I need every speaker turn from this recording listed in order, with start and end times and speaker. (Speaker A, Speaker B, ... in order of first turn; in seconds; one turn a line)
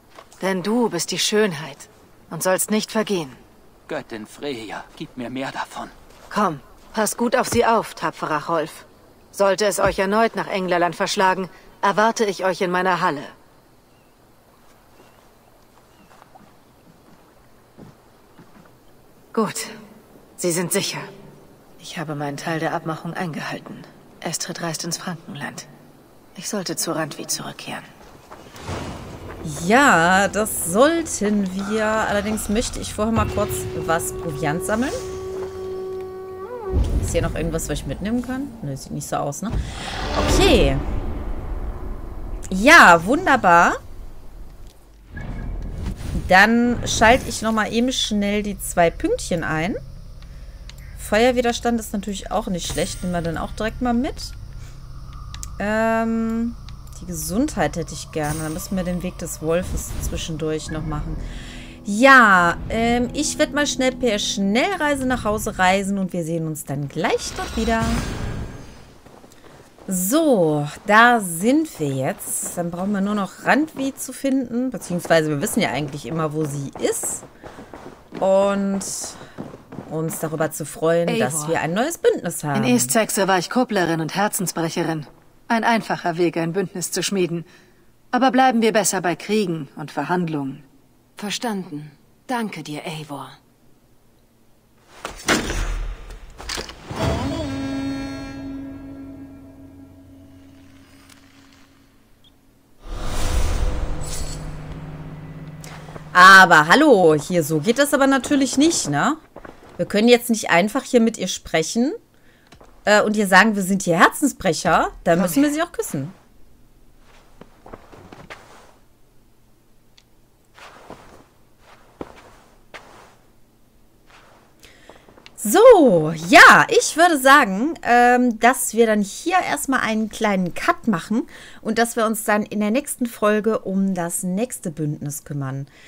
Speaker A: 0.4-3.4
Speaker B: 3.9-5.9
Speaker A: 6.3-13.3
Speaker A: 19.3-19.7
Speaker A: 20.4-21.1
Speaker A: 21.8-25.7
Speaker A: 26.4-27.9
Speaker C: 29.4-35.0
Speaker C: 37.0-39.5
Speaker C: 40.1-40.8
Speaker C: 42.5-43.8
Speaker C: 46.1-49.8
Speaker C: 51.0-54.3
Speaker C: 55.6-61.2
Speaker C: 61.8-68.0
Speaker C: 69.9-77.2
Speaker C: 78.2-79.2
Speaker C: 79.9-82.9
Speaker A: 81.1-81.6
Speaker A: 82.5-87.5
Speaker A: 88.1-90.6
Speaker A: 91.2-93.4
Speaker C: 106.1-109.2
Speaker C: 109.8-112.0
Speaker C: 112.8-116.1
Speaker A: 115.2-115.4
Speaker C: 125.4-135.7